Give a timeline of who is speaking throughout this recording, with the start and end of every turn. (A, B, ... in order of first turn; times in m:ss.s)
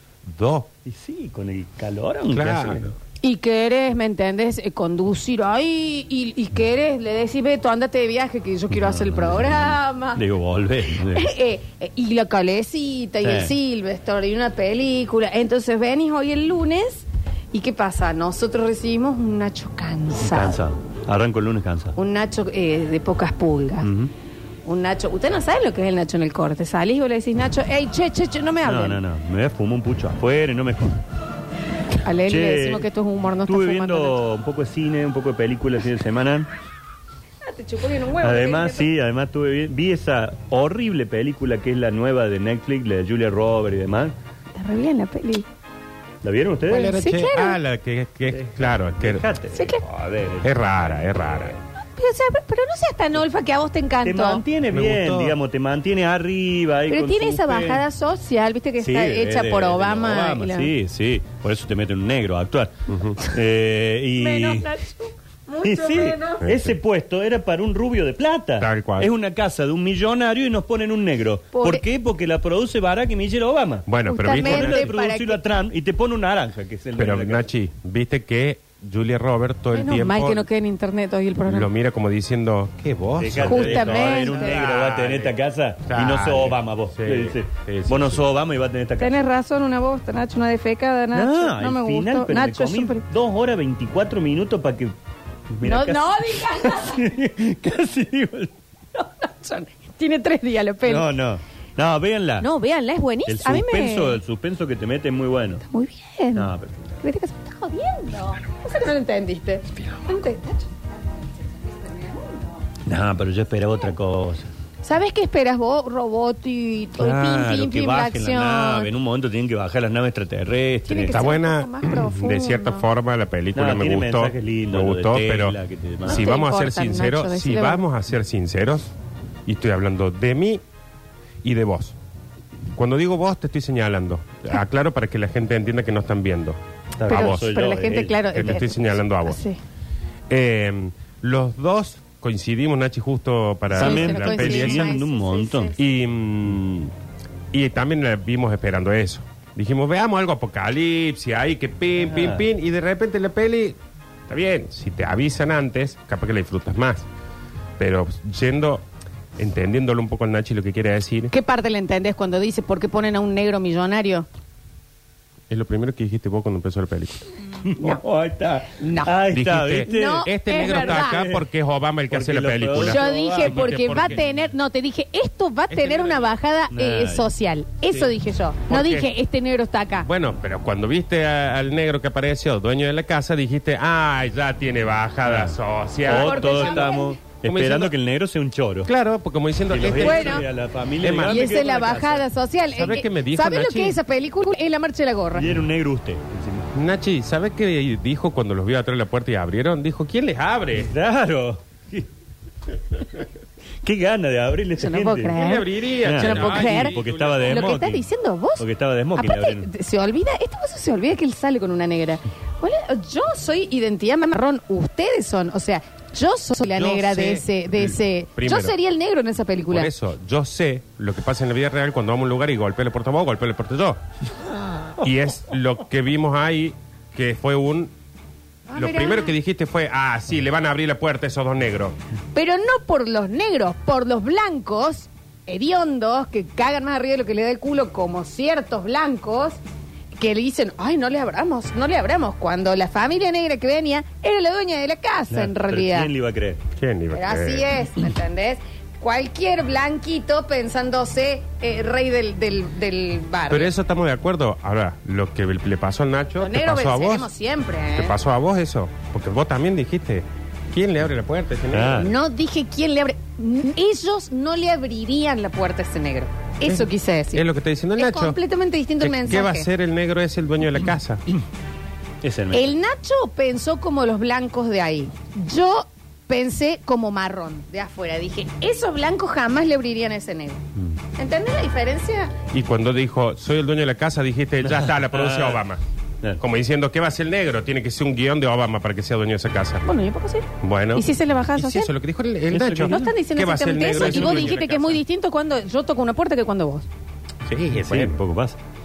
0:00.3-0:00.7 A
0:00.8-0:02.9 B
0:02.3-0:02.9 A
0:03.2-0:10.2 C
0:08.7-0:11.3 B
0:11.1-0:20.6 C
0:13.2-0:13.6 B
0:20.2-0:22.0 B
0:22.0-0:23.9 C
0:23.8-0:24.1 B
0:24.7-0:29.0 C
0:28.6-0:31.0 B
0:31.9-0:34.2 C
0:32.3-0:36.5 B
0:37.4-0:38.9 C
0:38.2-0:44.1 B
0:44.5-0:45.5 C
0:46.2-0:47.0 B
0:46.7-0:49.2 A
0:46.7-0:47.6 C
0:48.3-0:51.6 B
0:49.5-0:49.8 C
0:50.4-0:51.6 A
0:51.9-0:54.4 C
0:54.0-0:57.9 B
0:54.7-0:55.4 A
0:56.9-1:00.7 C
0:58.8-1:04.7 B
1:02.9-1:03.2 A
1:04.2-1:06.5 C
1:05.6-1:17.5 B
1:06.4-1:06.8 A
1:08.6-1:09.1 A
1:11.5-1:11.8 C
1:13.9-1:14.9 A
1:14.1-1:15.4 C
1:17.0-1:20.5 A
1:19.7-1:21.7 C
1:21.5-1:25.3 A
1:23.2-1:29.2 B
1:23.4-1:24.5 C
1:25.9-1:28.2 A
1:29.0-1:33.0 C
1:31.1-1:35.0 B
1:35.5-1:38.5 B
1:35.6-1:37.1 C
1:39.0-1:41.1 C
1:40.8-1:42.5 B
1:42.4-1:44.2 C
1:43.3-1:45.6 B
1:45.6-1:50.8 C
1:46.4-1:47.0 B
1:51.7-1:52.4 C
1:52.8-1:54.5 B
1:54.8-1:58.9 C
1:57.0-2:01.4 B
2:00.9-2:02.9 C
2:01.1-2:08.9 A
2:03.6-2:06.3 B
2:06.1-2:07.8 C
2:09.5-2:10.6 A
2:11.4-2:12.0 A
2:12.8-2:17.5 A
2:17.0-2:18.6 B
2:17.1-2:19.6 C
2:18.1-2:19.4 A
2:20.3-2:25.0 A
2:23.7-2:25.8 B
2:23.8-2:25.9 C
2:25.8-2:26.9 A
2:27.5-2:33.8 A
2:32.0-2:32.5 B
2:34.3-2:37.1 A
2:37.8-2:38.8 A
2:39.4-2:41.3 A
2:41.3-2:44.3 C
2:45.5-2:47.3 A
2:47.6-2:51.5 B
2:48.7-2:49.1 C
2:49.3-2:54.2 A
2:49.8-2:51.2 C
2:52.1-2:54.2 B
2:52.8-3:00.1 C
2:55.7-2:56.3 A
2:56.7-2:57.3 B
2:58.7-2:59.1 A
3:00.0-3:07.9 A
3:05.2-3:08.9 B
3:06.1-3:07.2 C
3:08.9-3:10.5 A
3:09.7-3:12.2 B
3:09.9-3:10.4 C
3:11.0-3:11.5 A
3:11.2-3:15.6 C
3:12.8-3:14.0 A
3:15.4-3:16.7 B
3:16.7-3:20.9 A
3:20.7-3:22.1 B
3:23.8-3:25.4 B
3:24.8-3:39.9 C
3:25.3-3:27.8 A
3:26.0-3:28.0 B
3:28.6-3:29.7 B
3:36.7-3:38.8 A
3:39.7-3:44.0 A
3:45.0-3:47.9 A
3:48.7-3:49.4 C
3:48.7-3:52.0 A
3:52.3-3:59.6 C
4:00.2-4:06.1 C
4:05.3-4:06.6 B
4:06.8-4:07.7 A
4:07.1-4:13.7 C
4:13.5-4:17.3 A
4:16.4-4:18.2 C
4:17.9-4:22.1 A
4:21.7-4:22.1 B
4:22.0-4:27.4 C
4:26.6-4:28.4 A
4:28.0-4:29.7 C
4:29.0-4:31.2 A
4:32.2-4:32.7 B
4:32.5-4:40.6 C
4:41.2-4:42.3 C
4:42.5-4:45.8 A
4:44.6-4:45.7 B
4:46.4-4:49.8 A
4:49.8-4:51.9 C
4:50.6-4:55.0 A
4:52.5-4:53.1 B
4:52.8-4:56.9 C
4:53.8-4:54.6 B
4:57.5-4:58.2 A
4:57.7-4:58.6 B